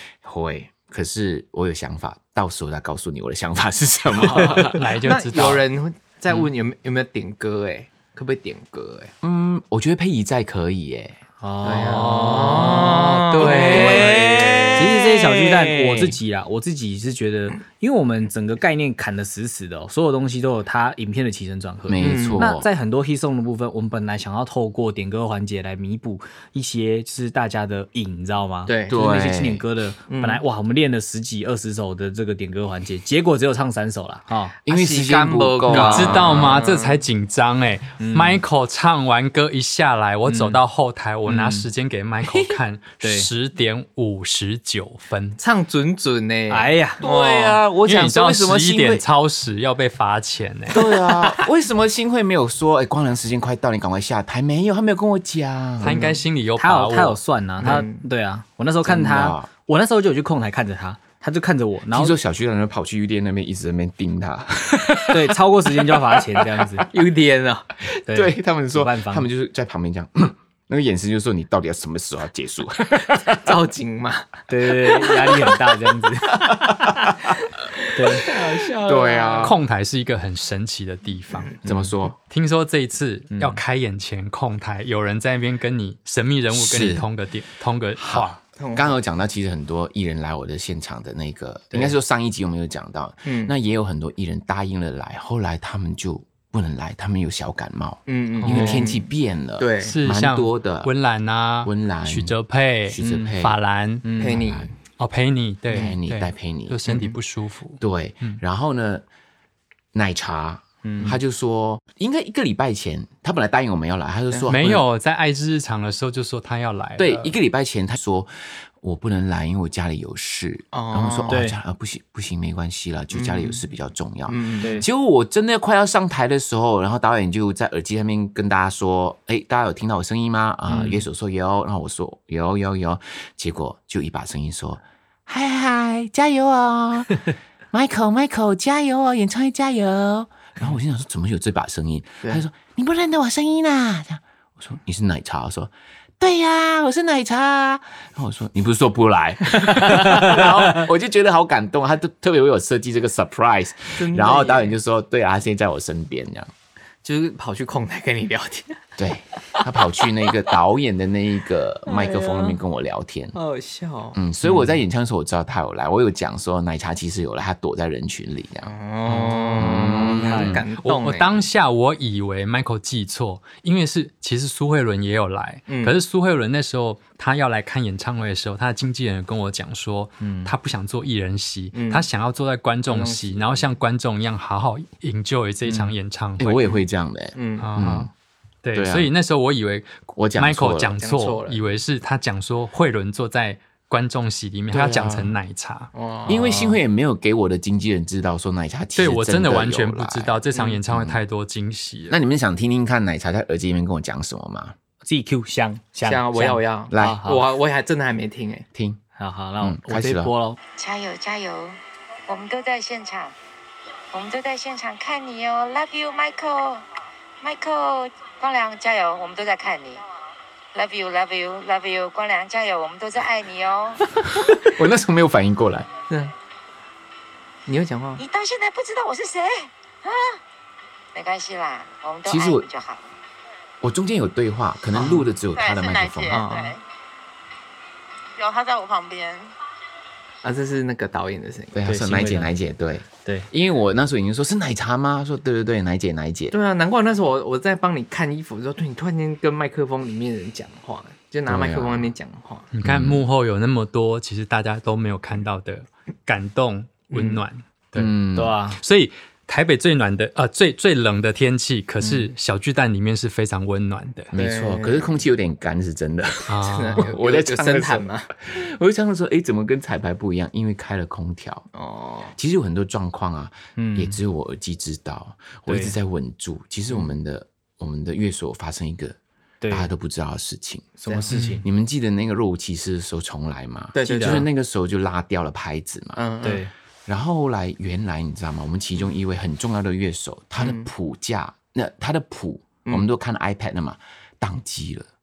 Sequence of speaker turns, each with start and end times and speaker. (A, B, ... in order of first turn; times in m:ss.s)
0:00.2-0:04.9 A
0:04.6-0:05.6 B
0:05.0-0:09.1 C
0:09.2-0:11.2 A
0:11.4-0:14.0 D
0:11.6-0:14.8 C
0:11.8-0:14.8 B
0:13.4-0:16.2 A
0:14.7-0:34.5 D
0:21.9-0:22.7 A
0:22.0-0:22.4 C
0:28.6-0:29.0 C
0:28.9-0:29.6 A
0:30.1-0:30.4 C
0:34.6-0:36.6 A
0:34.7-0:37.0 C
0:35.7-0:45.4 B
0:38.0-0:38.4 D
0:40.3-0:40.6 D
0:41.2-0:41.7 D
0:43.0-0:43.3 D
0:45.4-0:47.6 C
0:46.5-0:47.0 D
0:47.0-0:49.0 A
0:47.8-0:50.8 B
0:50.7-0:56.0 A
0:55.8-0:57.2 B
0:55.8-0:56.2 C
0:56.6-1:02.2 D
0:57.6-0:58.0 C
0:58.8-0:59.5 A
1:01.9-1:05.4 A
1:05.1-1:06.9 D
1:05.9-1:06.6 A
1:06.9-1:07.7 C
1:07.9-1:13.5 A
1:08.1-1:09.3 D
1:13.3-1:15.5 C
1:14.5-1:16.9 D
1:16.5-1:16.9 A
1:17.9-1:18.3 D
1:18.0-1:19.5 C
1:18.2-1:19.6 A
1:19.4-1:21.6 B
1:21.6-1:22.2 A
1:22.3-1:28.4 B
1:23.3-1:23.6 D
1:26.5-1:27.0 A
1:28.0-1:40.9 A
1:28.6-1:28.9 C
1:33.2-1:33.5 C
1:38.1-1:39.0 C
1:38.4-1:38.8 B
1:38.5-1:38.8 D
1:39.6-1:40.0 C
1:39.8-1:44.1 B
1:41.6-1:42.3 A
1:42.9-1:43.6 A
1:43.0-1:43.3 D
1:44.0-1:44.4 D
1:44.2-1:44.7 C
1:44.2-1:44.7 A
1:45.0-1:48.4 B
1:45.7-1:46.8 A
1:46.9-1:47.1 C
1:47.8-1:49.0 A
1:49.9-1:54.8 A
1:50.8-1:51.2 D
1:54.5-1:57.3 B
1:57.0-2:36.5 A
2:00.7-2:01.4 C
2:01.3-2:01.6 D
2:03.1-2:03.6 C
2:04.3-2:04.8 C
2:04.6-2:04.8 D
2:10.7-2:11.0 D
2:34.0-2:34.7 C
2:37.0-2:38.8 C
2:39.0-2:43.4 A
2:39.6-2:39.8 C
2:41.9-2:42.6 C
2:43.3-2:44.7 C
2:44.1-2:50.6 A
2:48.6-2:51.4 C
2:49.2-2:50.6 D
2:50.8-3:06.6 B
2:55.7-2:55.9 C
3:00.2-3:00.5 D
3:01.7-3:02.1 C
3:02.9-3:03.7 C
3:06.4-3:08.1 A
3:07.3-3:07.7 C
3:07.6-3:08.1 B
3:08.6-3:15.9 B
3:08.8-3:09.1 A
3:10.1-3:11.0 A
3:11.0-3:11.6 C
3:14.7-3:15.4 A
3:15.9-3:16.5 C
3:16.3-3:21.2 A
3:16.3-3:16.7 D
3:19.0-3:22.2 B
3:20.5-3:20.8 C
3:22.1-3:24.7 A
3:25.0-3:27.4 D
3:26.0-3:28.6 C
3:26.9-3:27.2 A
3:28.7-3:29.0 A
3:29.2-3:30.6 D
3:29.6-3:30.3 A
3:30.8-3:33.3 E
3:34.1-3:36.8 E
3:37.4-3:40.0 E
3:40.7-3:44.1 E
3:44.3-3:45.9 A
3:47.7-3:48.2 C
3:48.2-3:50.4 E
3:51.1-3:53.1 E
3:52.2-3:52.6 A
3:53.8-3:56.4 A
3:54.9-3:55.3 C
3:55.5-3:56.8 E
3:56.3-3:56.8 C
3:58.3-3:59.5 E
4:00.4-4:01.8 C
4:01.7-4:06.5 A
4:01.8-4:02.5 D
4:06.5-4:12.7 C
4:11.5-4:12.1 A
4:12.7-4:18.1 B
4:12.8-4:13.2 A
4:17.1-4:17.4 C
4:17.9-4:18.5 A
4:18.3-4:18.8 D
4:18.8-4:24.3 B
4:22.0-4:22.3 D
4:24.3-4:31.6 A
4:24.3-4:25.1 C
4:26.5-4:27.1 B
4:26.6-4:28.3 C
4:31.7-4:32.3 C
4:32.4-4:39.2 A
4:33.8-4:34.2 D
4:35.7-4:35.9 D
4:39.6-4:39.9 D
4:39.7-4:41.0 A
4:41.0-4:41.6 D
4:41.1-4:41.3 C
4:41.3-4:41.6 B
4:41.6-4:46.2 A
4:43.9-4:44.5 C
4:44.0-4:44.4 D
4:46.2-4:46.6 C
4:46.4-4:46.7 D
4:47.1-4:55.1 A
4:50.6-4:50.9 C